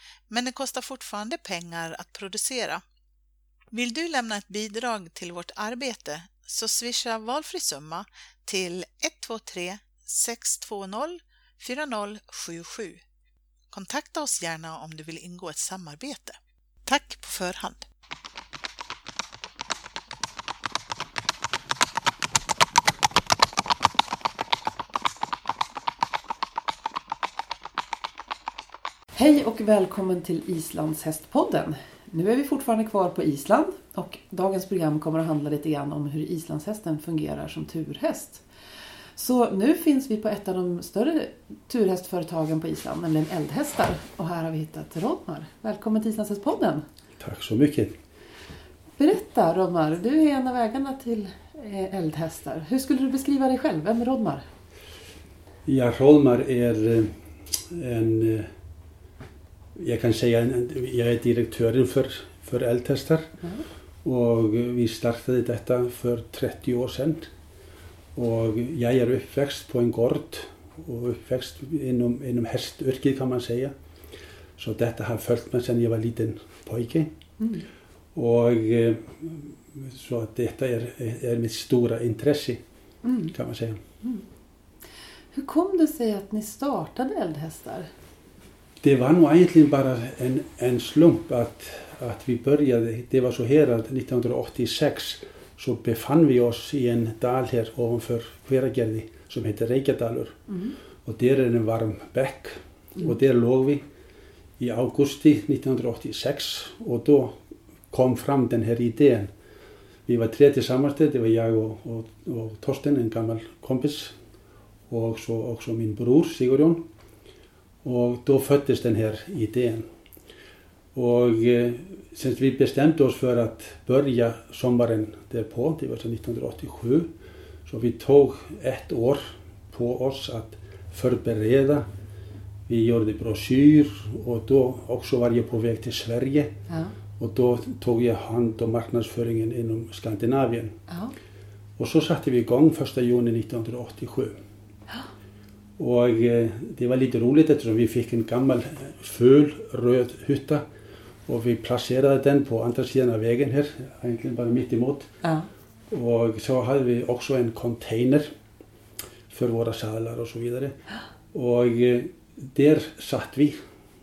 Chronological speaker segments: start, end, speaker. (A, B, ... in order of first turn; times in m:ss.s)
0:00.3-0:02.8 A
0:03.7-0:13.0 A
0:13.7-0:17.9 A
0:29.1-0:38.4 B
0:39.2-0:46.8 B
0:47.2-0:48.0 C
0:49.0-0:54.4 B
0:55.7-0:58.5 C
0:59.8-1:03.3 C
1:03.4-1:03.7 B
1:04.0-1:07.3 C
1:08.2-1:13.7 C
1:14.6-1:17.2 C
1:17.4-1:17.7 B
1:18.1-1:22.6 C
1:23.0-1:23.3 B
1:23.3-1:23.8 C
1:25.3-1:27.9 B
1:28.8-1:40.4 C
1:40.5-1:40.8 B
1:41.0-1:43.8 C
1:44.6-1:49.3 C
1:50.1-1:54.2 C
1:54.9-1:56.9 C
1:57.8-1:59.9 C
2:00.9-2:07.1 C
2:07.7-2:11.9 C
2:12.7-2:16.6 C
2:16.7-2:17.0 B
2:17.2-2:20.8 C
2:20.9-2:21.1 B
2:21.8-2:24.4 C
2:25.8-2:30.6 C
2:31.3-2:35.1 C
2:35.9-2:38.3 C
2:39.3-2:40.8 C
2:41.3-2:43.6 C